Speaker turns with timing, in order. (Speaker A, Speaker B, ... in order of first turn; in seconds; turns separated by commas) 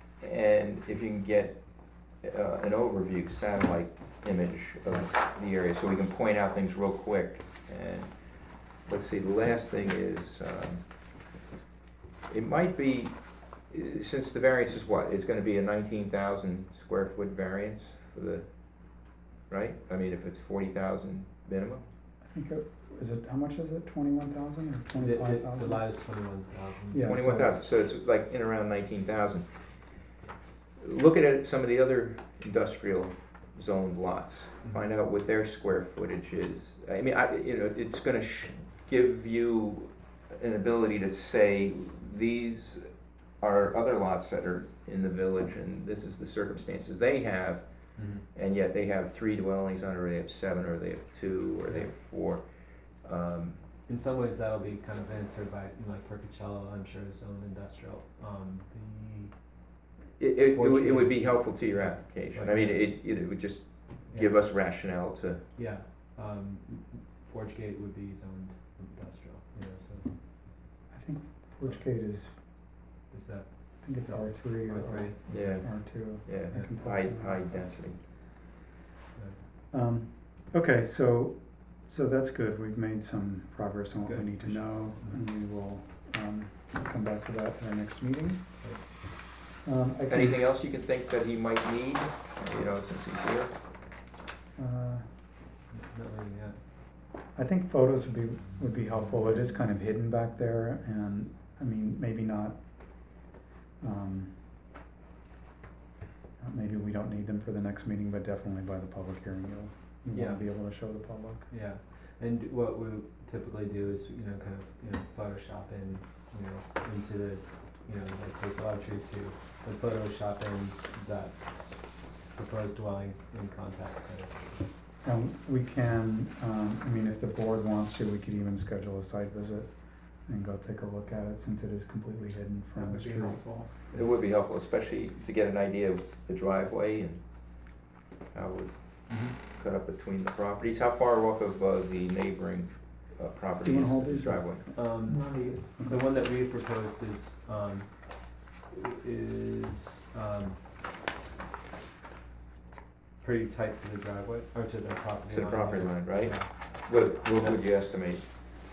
Speaker A: 0.2-1.6, Speaker A: 2.2-8.1, Speaker A: 8.9-10.8, Speaker A: 12.3-13.2, Speaker A: 13.7-18.4, Speaker A: 19.5-21.8, Speaker B: 22.2-25.8, Speaker C: 24.9-27.3, Speaker B: 26.9-27.6, Speaker A: 27.0-29.4, Speaker A: 30.8-42.9, Speaker A: 43.4-47.6, Speaker C: 48.0-48.2, Speaker A: 48.3-52.4, Speaker A: 53.0-53.6, Speaker C: 53.9-59.3, Speaker A: 60.2-65.4, Speaker C: 60.5-62.9, Speaker C: 64.1-64.4, Speaker C: 65.5-70.1, Speaker B: 70.9-72.4, Speaker C: 73.1-75.2, Speaker B: 73.8-77.9, Speaker A: 75.3-78.0, Speaker B: 79.7-88.5, Speaker C: 84.0-85.2, Speaker C: 88.6-89.0, Speaker B: 89.6-90.4, Speaker A: 90.1-93.5, Speaker B: 94.6-95.1, Speaker C: 95.7-96.6, Speaker B: 97.3-103.2, Speaker C: 98.8-99.8, Speaker B: 103.8-104.5, Speaker B: 106.4-111.5, Speaker C: 110.1-110.5, Speaker C: 111.5-124.8, Speaker B: 125.0-133.7, Speaker C: 132.8-134.1, Speaker A: 133.9-137.2, Speaker A: 138.3-144.6, Speaker C: 139.1-139.3, Speaker B: 143.6-146.0, Speaker C: 144.7-150.6, Speaker C: 153.2-157.6, Speaker A: 155.3-158.2